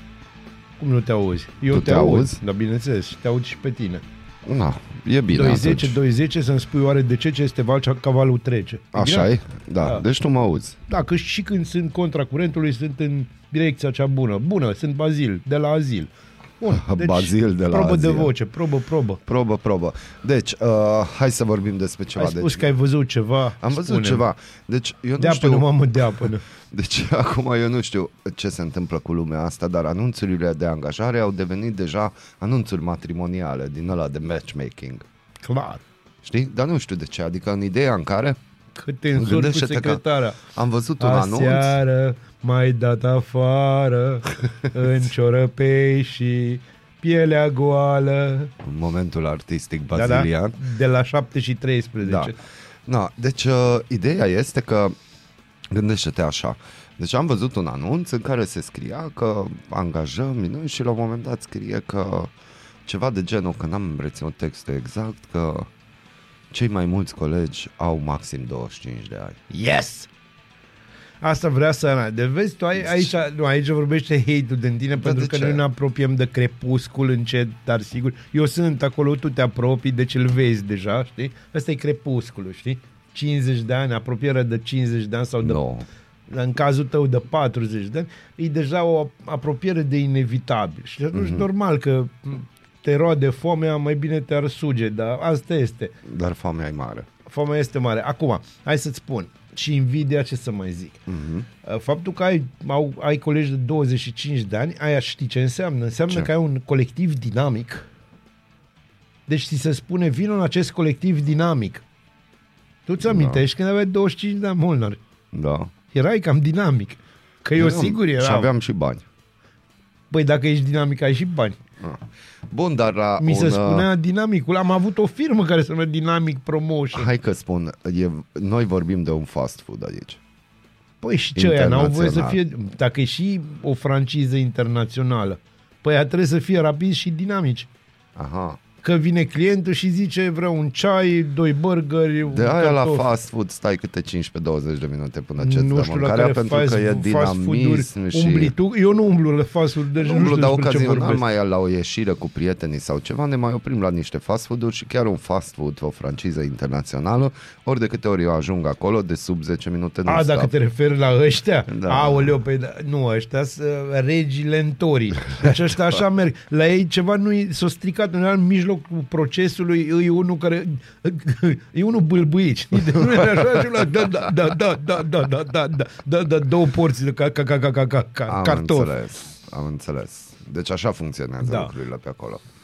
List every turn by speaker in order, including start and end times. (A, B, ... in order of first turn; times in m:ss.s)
0:00.8-0:04.0 A
0:01.7-0:02.4 B
0:04.4-0:06.0 B
0:05.3-0:09.3 A
0:08.9-0:10.8 B
0:10.9-0:19.2 A
0:16.7-0:18.3 B
0:19.2-0:22.7 B
0:22.2-0:24.2 A
0:23.6-0:26.0 B
0:25.2-0:26.4 A
0:26.7-0:35.0 B
0:35.4-0:35.8 A
0:36.2-0:38.4 B
0:38.8-0:40.4 A
0:39.1-0:41.8 B
0:41.0-0:48.5 A
0:48.6-0:50.6 B
0:49.9-0:52.4 A
0:52.0-0:52.3 B
0:52.9-0:54.9 B
0:55.7-1:02.3 B
1:02.8-1:05.7 B
1:06.5-1:09.4 B
1:09.5-1:10.1 A
1:11.2-1:25.6 A
1:12.8-1:13.1 B
1:15.0-1:15.6 B
1:25.4-1:25.8 B
1:26.3-1:35.9 A
1:31.1-1:31.4 B
1:36.0-1:37.1 B
1:37.2-1:41.1 A
1:41.1-1:41.5 B
1:41.6-1:47.8 A
1:49.3-1:51.8 A
1:52.9-1:55.0 A
1:53.0-1:53.4 B
1:55.3-1:55.7 B
1:55.9-1:58.5 A
1:57.6-1:59.0 B
2:00.1-2:01.6 A
2:01.8-2:03.9 B
2:03.2-2:07.1 A
2:06.9-2:10.2 B
2:11.0-2:17.7 A
2:11.4-2:12.4 B
2:18.2-2:18.6 B
2:18.8-2:23.0 A
2:22.3-2:28.5 B
2:25.4-2:31.2 A
2:30.0-2:40.5 B
2:40.0-2:58.9 A
2:41.7-2:42.3 B
2:52.9-2:54.3 B
2:58.3-3:02.4 B
3:01.4-3:01.7 A